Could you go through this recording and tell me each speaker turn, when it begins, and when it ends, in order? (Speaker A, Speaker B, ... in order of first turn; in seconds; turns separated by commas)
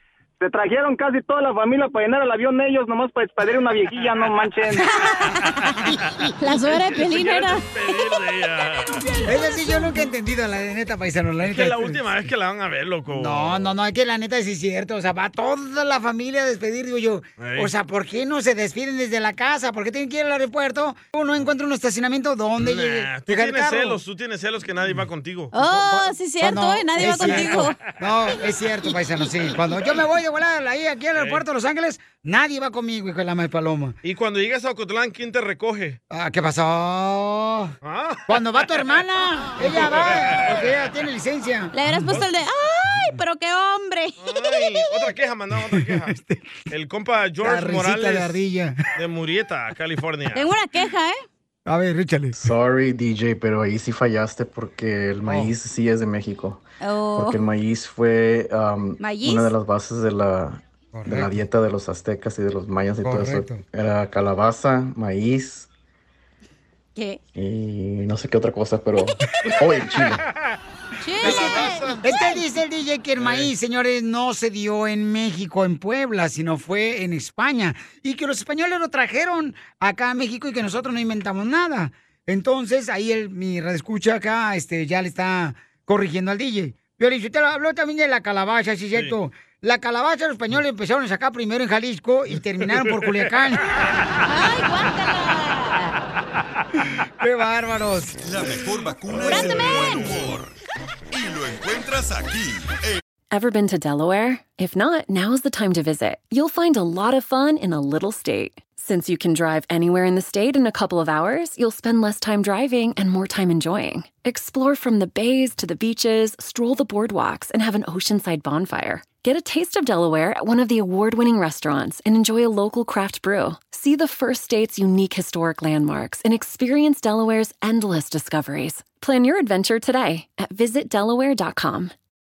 Speaker A: 0.4-4.9, Speaker B: 3.9-4.3, Speaker C: 4.8-5.8, Speaker D: 5.9-6.3, Speaker C: 6.4-8.0, Speaker B: 6.7-9.2, Speaker D: 9.2-12.0, Speaker B: 11.4-13.7, Speaker D: 13.1-24.0, Speaker B: 17.4-17.7, Speaker B: 22.6-25.5, Speaker C: 25.5-27.8, Speaker D: 25.6-33.9, Speaker B: 27.0-27.7, Speaker B: 31.1-31.4, Speaker B: 34.0-36.0, Speaker D: 36.1-37.7, Speaker B: 37.8-39.0, Speaker D: 38.3-41.7, Speaker B: 39.6-40.7, Speaker C: 41.7-45.1, Speaker B: 44.2-46.1, Speaker D: 45.8-46.5, Speaker B: 46.7-48.4, Speaker D: 47.4-48.8, Speaker B: 48.9-50.5, Speaker C: 50.3-51.2, Speaker D: 51.7-52.4, Speaker E: 52.4-56.6, Speaker D: 55.2-55.5, Speaker C: 56.8-57.4, Speaker E: 57.1-65.7, Speaker C: 59.0-59.5, Speaker D: 60.9-61.4, Speaker D: 63.0-63.6, Speaker E: 67.3-70.2, Speaker C: 71.0-72.3, Speaker D: 71.2-93.6, Speaker B: 71.3-71.7, Speaker B: 73.2-73.5, Speaker C: 94.2-95.9, Speaker D: 97.2-98.2, Speaker F: 98.2-100.5, Speaker C: 99.2-100.2, Speaker B: 99.5-100.1, Speaker F: 101.1-103.0, Speaker G: 103.3-131.9